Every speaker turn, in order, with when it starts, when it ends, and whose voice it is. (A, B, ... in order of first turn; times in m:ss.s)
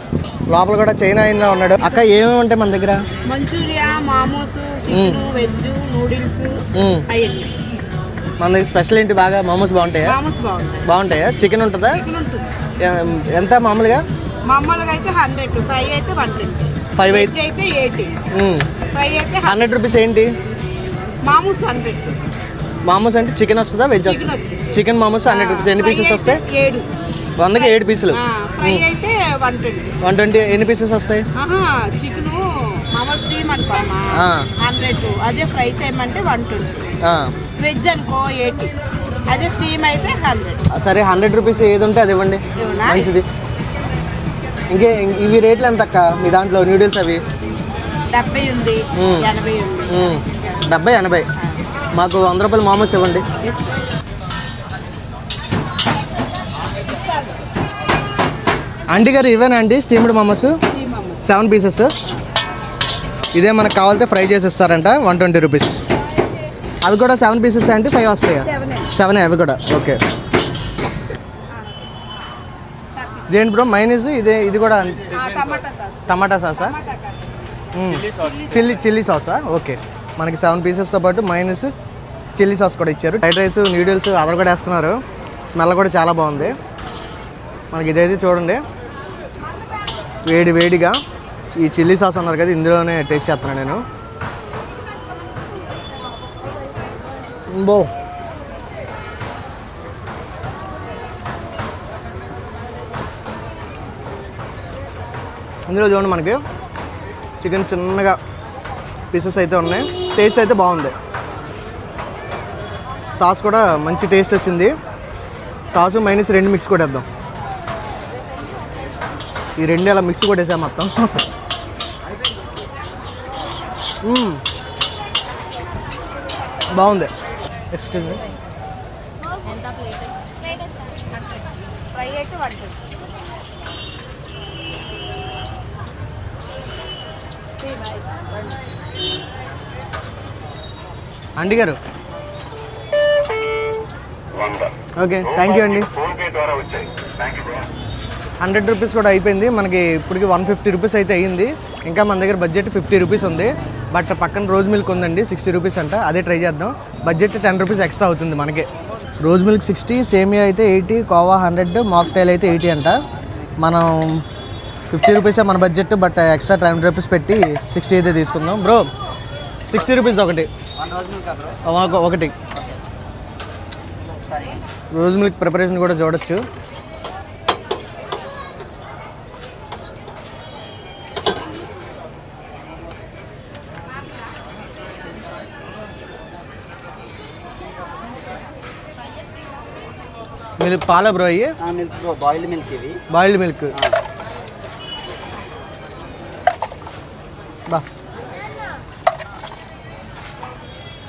0:00.5-0:03.0 A
0:03.3-0:07.5 B
0:04.9-0:05.2 A
0:06.8-0:07.0 A
0:08.4-0:10.2 A
0:10.0-0:10.9 B
0:10.8-0:12.0 A
0:11.8-0:12.5 B
0:12.8-0:14.0 A
0:14.5-0:18.2 B
0:17.0-0:17.3 A
0:18.3-0:18.7 A
0:18.9-0:19.7 B
0:19.4-0:20.3 A
0:21.2-0:22.2 B
0:22.9-0:26.4 A
0:24.0-0:26.9 B
0:27.4-0:28.9 A
0:27.5-0:30.0 B
0:30.0-0:31.3 A
0:31.4-0:37.0 B
0:34.2-0:34.5 A
0:37.0-0:37.3 A
0:37.6-0:38.7 B
0:39.3-0:40.6 B
0:40.7-0:43.2 A
0:42.6-0:43.2 B
0:44.7-0:47.2 A
0:48.1-0:50.8 B
0:49.0-0:49.3 A
0:49.9-0:51.3 A
0:52.0-0:53.2 A
0:53.4-0:53.8 B
0:58.9-1:00.6 A
1:00.7-1:01.2 B
1:01.2-1:02.0 A
1:03.4-1:05.8 A
1:06.8-1:10.0 A
1:08.5-1:08.9 B
1:12.9-1:13.4 B
1:13.3-1:15.6 A
1:15.1-1:18.8 B
1:16.1-1:16.8 A
1:17.7-1:21.7 A
1:22.4-1:25.0 A
1:25.5-1:26.6 A
1:27.7-1:28.6 A
1:30.3-1:31.0 A
1:31.6-1:33.8 A
1:37.5-1:37.9 A
1:45.7-1:46.4 A
1:47.4-1:48.2 A
1:49.1-1:50.9 A
1:53.2-1:54.7 A
1:55.7-1:57.0 A
1:59.6-2:01.3 A
2:04.0-2:04.4 A
2:06.8-2:07.1 A
2:07.7-2:08.2 A
2:11.9-2:12.8 B
2:21.4-2:21.8 A
2:25.0-2:25.9 A
2:26.1-2:27.7 C
2:28.4-2:38.7 A
2:39.2-2:43.0 A
2:42.3-2:43.6 C
2:43.6-2:44.0 A
2:44.9-2:48.9 A
2:49.7-2:50.5 A
2:50.8-2:51.6 C
2:51.6-2:52.3 A
2:54.1-2:54.7 C
2:54.9-2:56.4 A
3:10.6-3:11.5 A
3:11.6-3:13.0 C
3:13.1-3:13.8 A
3:13.7-3:14.0 C